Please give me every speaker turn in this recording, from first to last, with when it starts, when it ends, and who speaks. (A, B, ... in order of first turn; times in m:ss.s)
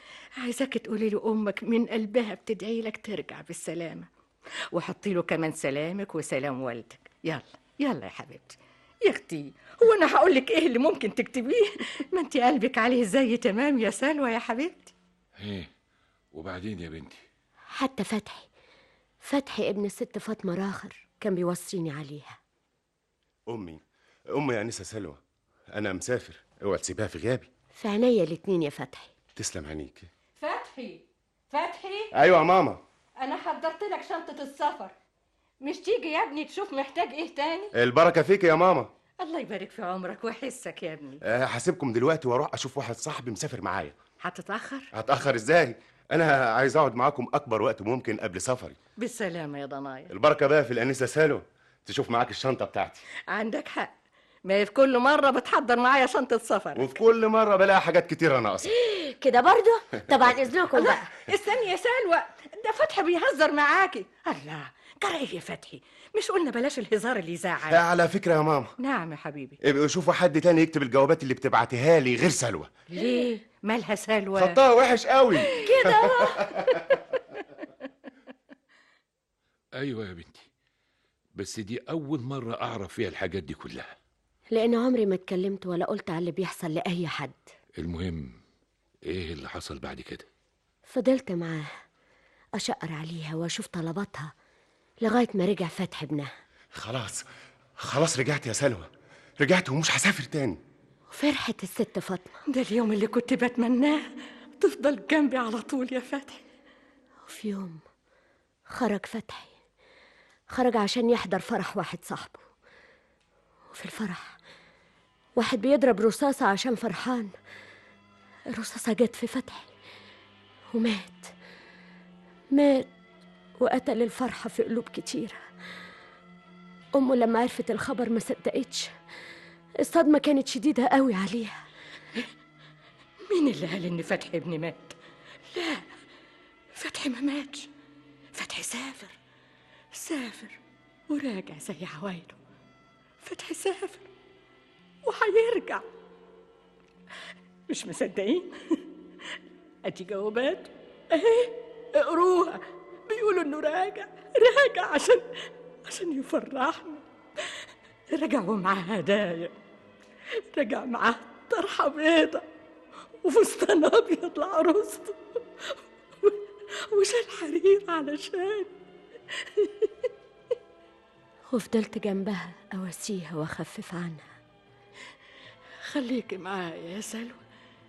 0:00.4-0:04.1 A
0:04.7-0:14.9 A
0:15.4-0:15.7 B
0:16.3-0:17.2 B
0:17.7-0:18.5 C
0:19.2-0:22.4 C
0:23.5-0:25.2 D
0:25.7-0:27.5 D
0:27.8-0:29.1 C
0:29.4-0:30.1 D
0:30.4-0:32.1 A
0:32.1-0:32.8 D
0:33.2-0:34.9 A
0:35.6-0:37.7 A
0:37.8-0:38.9 D
0:39.2-0:41.2 A
0:41.2-0:43.9 D
0:44.2-0:44.9 A
0:44.9-0:48.8 D
0:49.0-0:50.1 A
0:50.1-0:53.0 D
0:53.3-0:53.9 A
0:54.4-0:57.0 A
0:56.8-0:58.7 D
0:58.7-1:01.1 C
1:00.8-1:07.8 A
1:07.7-1:08.8 D
1:08.8-1:09.6 A
1:09.6-1:12.7 D
1:12.9-1:14.6 A
1:14.4-1:17.0 D
1:15.4-1:17.4 A
1:19.8-1:20.5 B
1:21.4-1:23.9 B
1:24.5-1:27.5 C
1:27.8-1:28.4 B
1:29.0-1:30.3 B
1:30.9-1:31.7 C
1:32.6-1:34.3 C
1:35.0-1:36.3 C
1:36.8-1:37.2 D
1:37.8-1:40.6 D
1:41.1-1:42.4 C
1:42.5-1:46.5 A
1:47.2-1:47.8 C
1:48.7-1:49.5 C
1:50.5-1:52.4 C
1:53.7-1:54.4 C
1:55.4-1:57.3 C
1:58.5-1:59.7 C
2:00.7-2:01.3 C
2:02.5-2:02.9 C
2:03.6-2:05.4 C
2:07.0-2:08.9 C
2:09.8-2:11.6 C
2:13.3-2:15.0 A
2:15.5-2:16.0 A
2:16.7-2:17.7 A
2:18.3-2:19.2 A
2:19.9-2:22.4 A
2:23.2-2:24.1 A
2:25.0-2:25.8 A
2:27.7-2:39.5 A
2:40.4-2:42.5 A
2:43.2-2:48.7 A
2:49.3-2:50.1 A
2:51.5-2:54.3 C
2:55.8-2:57.4 A